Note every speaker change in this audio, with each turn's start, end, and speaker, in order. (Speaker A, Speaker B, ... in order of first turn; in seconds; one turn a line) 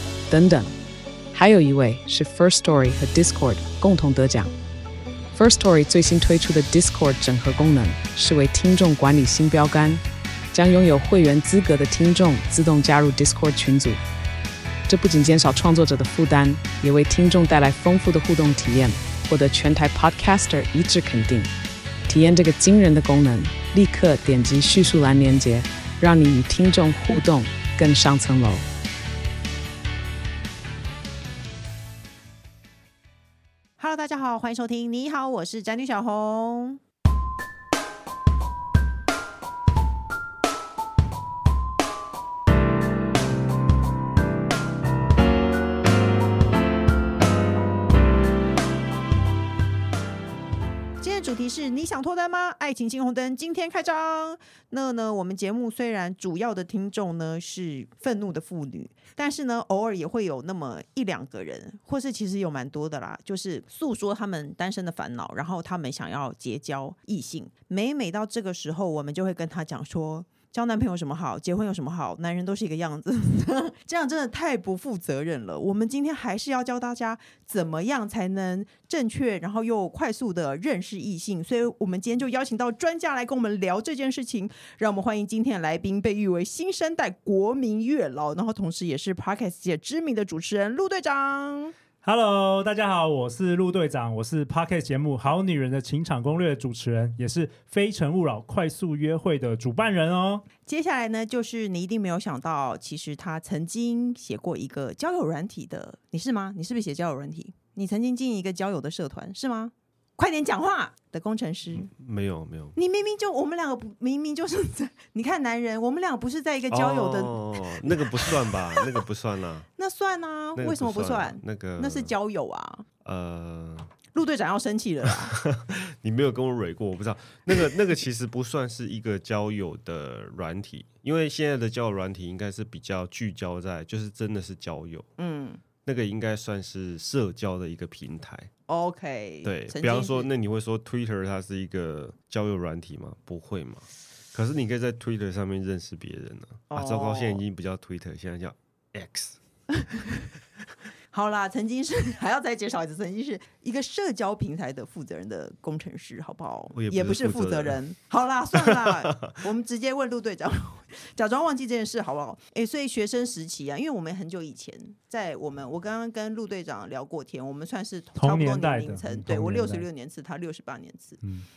Speaker A: 0.3-0.7
Speaker A: 1.3-4.5
Speaker A: 5.3-10.0
Speaker A: 10.5-14.0
Speaker A: 14.9-21.5
Speaker A: 22.1-28.6
Speaker B: 33.8-36.8
Speaker B: 51.0-91.7
Speaker C: 92.0-100.4
Speaker B: 100.6-111.9
Speaker D: 111.7-112.8
Speaker B: 112.7-118.2
Speaker D: 116.7-119.7
Speaker B: 119.8-122.8
Speaker D: 120.6-122.1
Speaker D: 123.0-123.9
Speaker B: 124.1-125.4
Speaker D: 125.3-135.1
Speaker B: 135.2-135.6
Speaker D: 135.8-138.5
Speaker B: 138.7-140.3
Speaker D: 139.4-149.4
Speaker B: 146.7-147.4
Speaker B: 149.7-150.1
Speaker B: 151.1-171.2
Speaker D: 156.8-157.8
Speaker D: 158.6-159.3
Speaker C: 168.2-169.9